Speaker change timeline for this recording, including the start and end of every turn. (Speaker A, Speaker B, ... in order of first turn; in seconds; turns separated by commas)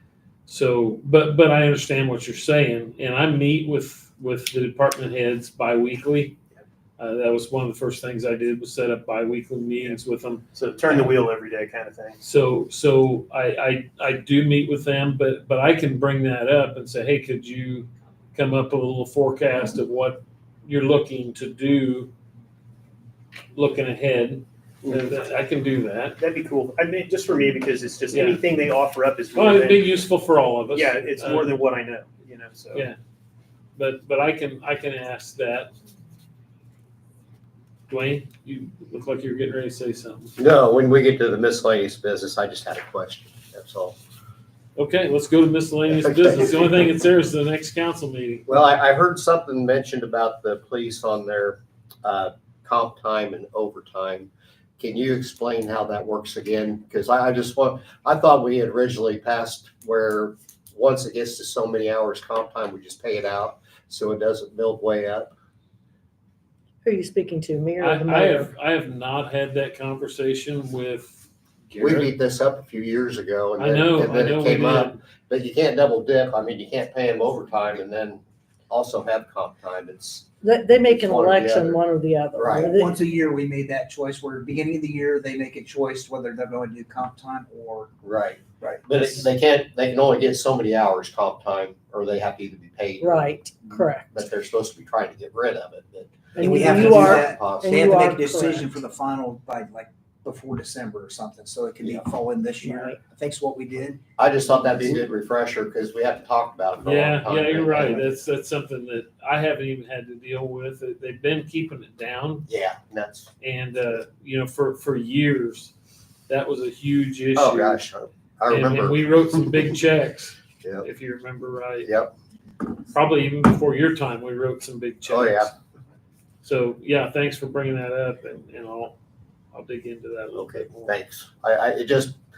Speaker A: 0.5-6.4, Speaker A: 7.0-11.1, Speaker B: 10.5-12.2, Speaker A: 12.2-22.1, Speaker A: 23.6-26.2, Speaker B: 24.8-25.2, Speaker B: 26.2-29.9, Speaker A: 28.1-28.4, Speaker A: 29.3-31.6, Speaker B: 30.7-32.9, Speaker A: 33.8-35.7, Speaker A: 37.9-40.4, Speaker C: 40.4-44.0, Speaker A: 44.8-48.5, Speaker C: 45.9-46.9, Speaker C: 48.5-65.3, Speaker D: 66.8-68.5, Speaker A: 67.8-71.2, Speaker A: 71.7-72.1, Speaker C: 71.8-81.8, Speaker A: 73.6-75.0, Speaker D: 80.4-82.9, Speaker C: 82.3-82.7, Speaker E: 82.7-87.9, Speaker C: 88.0-97.8, Speaker E: 88.6-89.3, Speaker D: 93.0-94.1, Speaker D: 96.3-98.7, Speaker E: 96.4-104.0, Speaker D: 102.6-103.0, Speaker C: 104.2-108.1, Speaker A: 106.8-112.5, Speaker C: 112.5-113.3, Speaker A: 113.4-115.7, Speaker A: 116.3-117.8, Speaker C: 117.3-119.6, Speaker A: 118.5-122.0, Speaker C: 121.8-122.1, Speaker A: 122.9-125.5, Speaker C: 125.1-125.5, Speaker A: 126.4-129.0, Speaker A: 129.5-130.9, Speaker C: 130.3-132.2